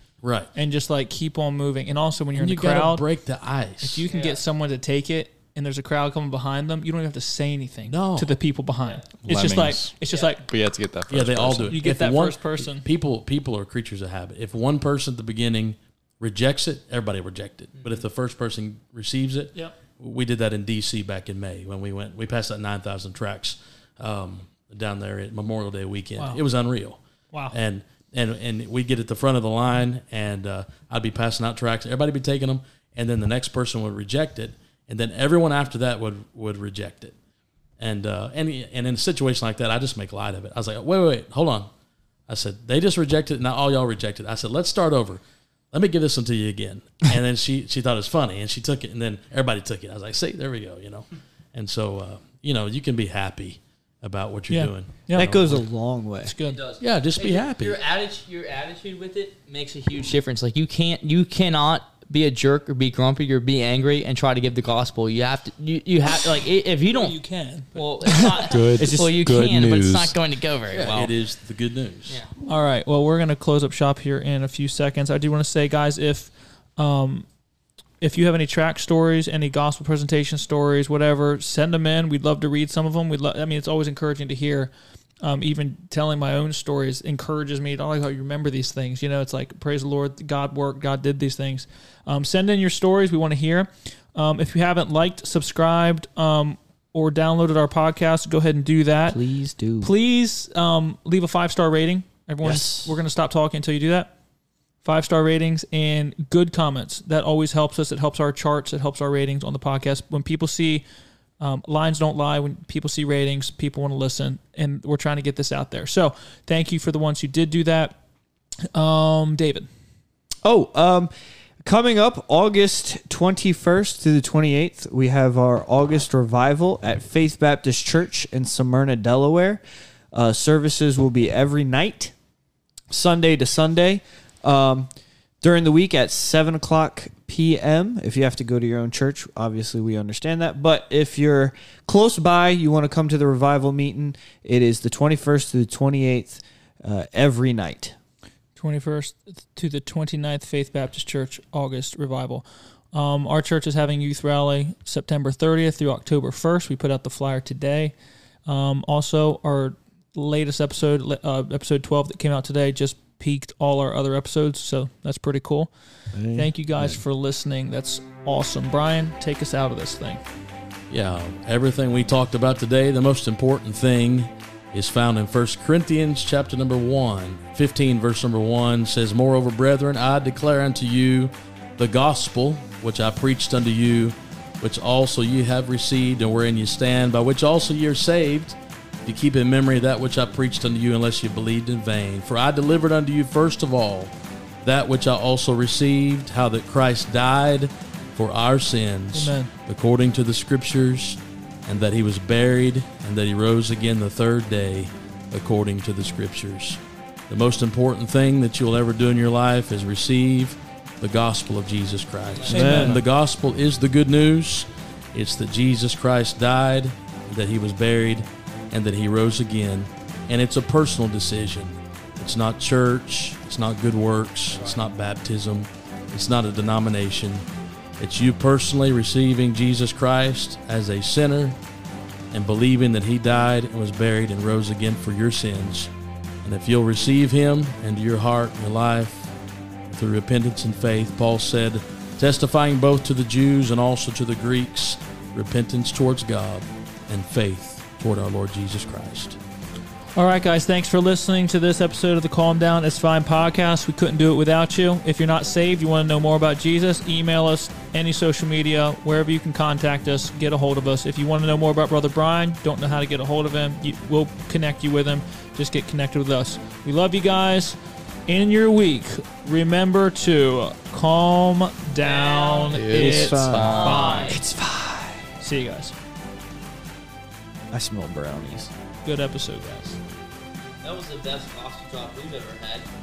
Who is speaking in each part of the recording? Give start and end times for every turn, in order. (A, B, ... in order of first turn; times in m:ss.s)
0:00.2-0:00.5 A
0:00.5-0:03.0 B
0:02.4-0:04.0 A
0:03.8-0:10.4 B
0:04.1-0:04.4 C
0:07.9-0:08.3 A
0:09.2-0:11.8 D
0:10.1-0:10.3 C
0:11.1-0:37.1 A
0:11.7-0:12.8 B
0:17.8-0:18.0 C
0:26.2-0:26.4 B
0:37.8-0:41.7 A
0:42.3-0:55.6 A
0:54.5-0:55.3 B
0:55.1-0:56.3 E
0:56.2-0:56.6 B
0:56.4-1:07.2 C
0:56.8-0:57.8 A
1:06.9-1:08.6 B
1:07.7-1:11.1 C
1:08.5-1:10.2 D
1:08.8-1:09.2 E
1:10.7-1:12.2 A
1:12.4-1:17.2 B
1:18.0-1:39.2 B
1:39.1-1:39.9 E
1:39.8-1:44.1 B
1:42.4-1:42.9 E
1:44.8-1:50.8 B
1:51.4-1:58.0 B
1:58.7-1:59.7 B
2:00.4-2:01.1 E
2:01.6-2:12.1 E
2:12.9-2:14.9 E
2:15.4-2:28.0 E
2:28.6-2:37.9 B
2:38.4-2:45.7 B
2:46.1-2:46.5 E
2:46.3-2:50.2 B
2:50.9-3:47.4 A
3:19.1-3:19.5 B
3:32.4-3:32.8 C
3:32.5-3:33.0 B
3:32.5-3:33.0 E
3:48.0-3:51.6 A
3:52.3-3:55.9 A
3:56.4-3:59.3 A
3:59.9-4:09.4 A
4:10.2-4:34.4 B
4:32.0-4:32.8 C
4:32.7-4:34.1 D
4:32.9-4:35.2 E
4:33.6-4:34.4 C
4:35.4-4:36.0 B
4:37.7-4:38.7 E
4:39.0-4:40.0 B
4:40.8-4:42.9 C